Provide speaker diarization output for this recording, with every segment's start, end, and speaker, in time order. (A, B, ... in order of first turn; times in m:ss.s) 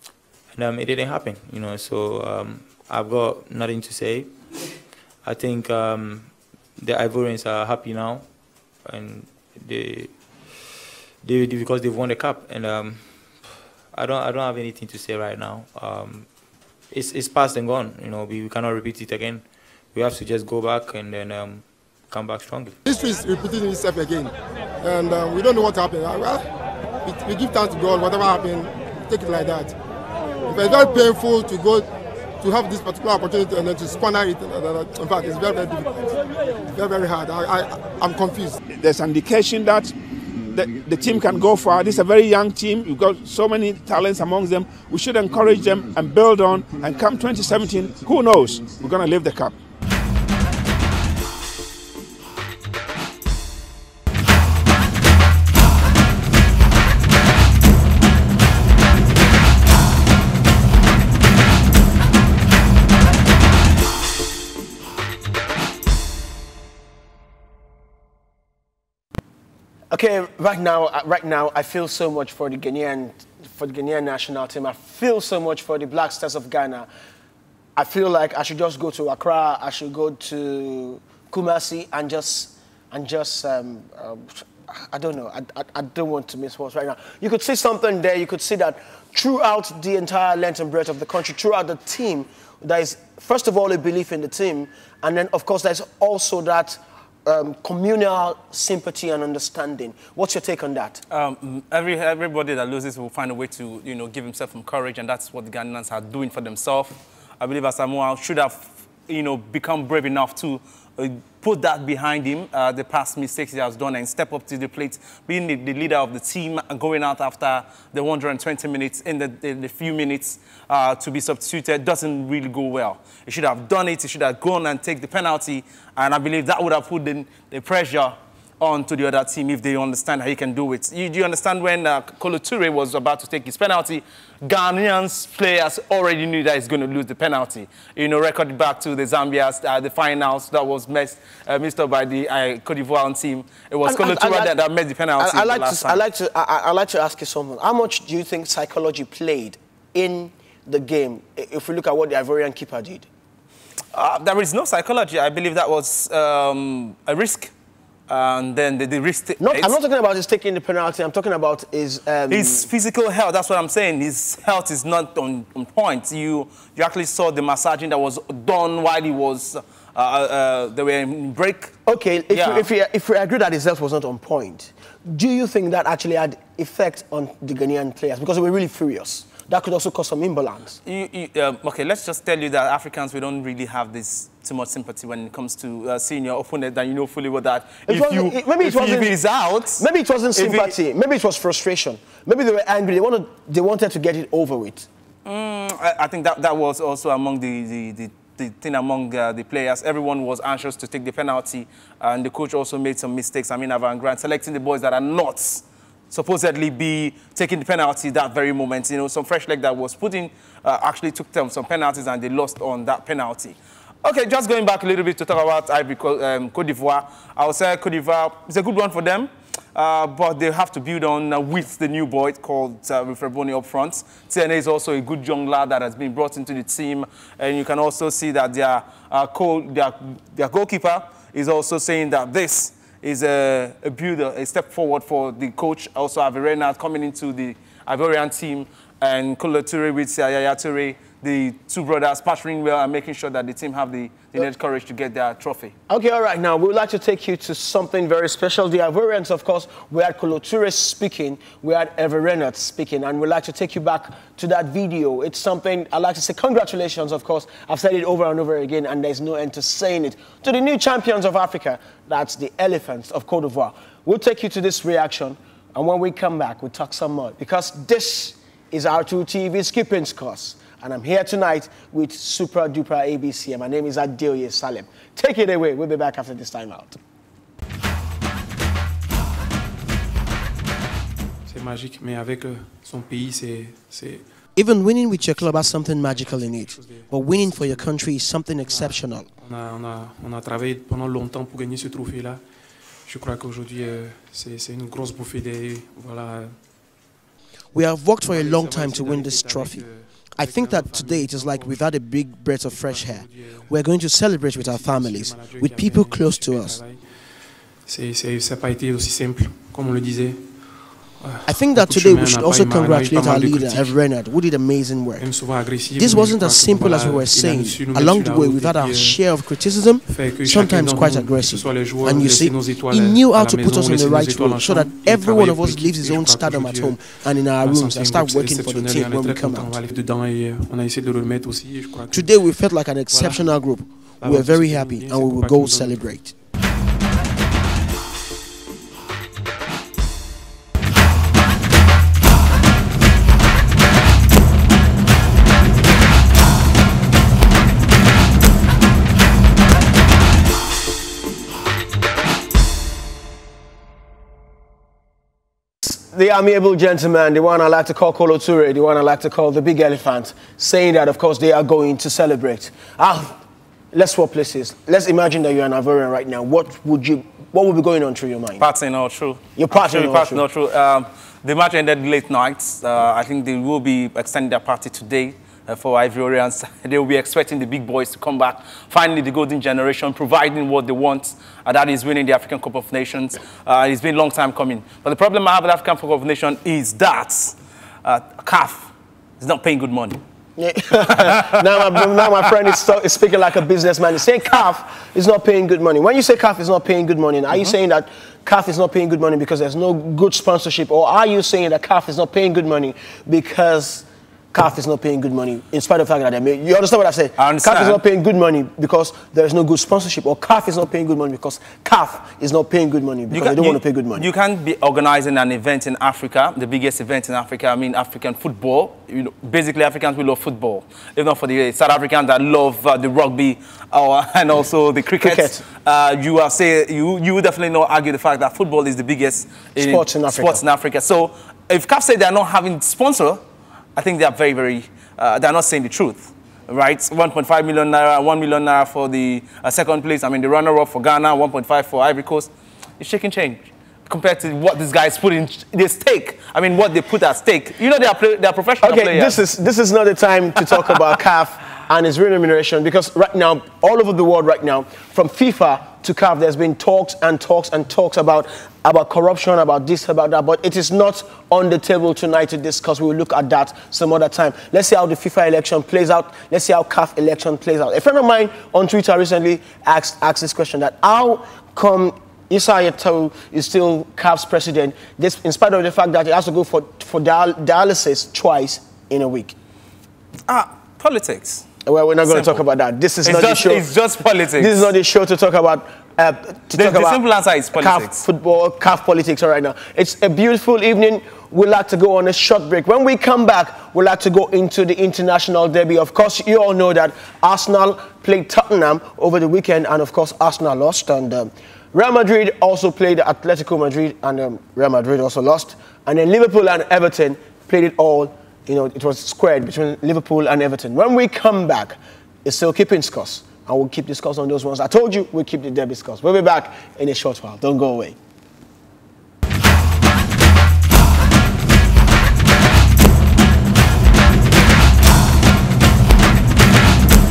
0:00.5-0:04.4 A
0:05.2-0:08.2 A
0:08.8-0:10.6 A
0:11.2-0:13.1 A
0:13.9-0:16.3 A
0:16.9-0:22.8 A
0:22.8-0:26.4 B
0:27.0-0:29.7 B
0:30.4-0:31.9 B
0:32.4-0:36.1 B
0:36.7-0:38.6 B
0:38.7-0:39.9 C
0:40.5-0:49.6 C
1:09.9-1:16.9 D
1:17.8-1:41.0 D
1:41.1-2:26.0 E
2:23.8-2:24.5 D
2:25.2-2:33.1 D
2:33.9-2:37.5 E
2:38.1-2:39.8 E
2:39.4-2:42.6 D
2:42.3-2:51.8 E
2:51.8-3:00.8 D
2:52.3-2:52.7 E
3:00.8-3:09.8 E
3:07.9-3:09.1 D
3:09.8-3:14.9 D
3:10.4-3:10.7 E
3:15.2-4:05.7 E
4:05.9-4:37.0 D
4:41.4-4:44.5 F
4:44.5-4:49.3 D
4:45.1-4:56.9 F
4:57.7-5:06.8 D
4:58.2-5:14.0 F
5:11.4-5:29.8 D
5:15.2-5:19.3 F
5:19.9-5:36.4 F
5:32.1-5:36.3 D
5:55.8-6:03.4 D
6:03.9-6:08.6 D
6:08.6-6:30.2 E
6:09.6-6:10.4 D
6:30.6-6:54.2 D
6:31.1-6:32.2 E
6:47.4-6:48.0 E
6:53.3-7:13.4 E
7:05.2-7:05.6 D
7:09.8-7:10.6 D
7:14.0-7:29.4 E
7:28.8-7:59.5 D
8:00.5-8:01.6 E
8:01.8-8:03.8 D
8:02.3-8:02.6 E
8:03.2-8:04.9 E
8:04.6-8:07.2 D
8:06.8-8:08.2 E
8:07.7-8:38.1 D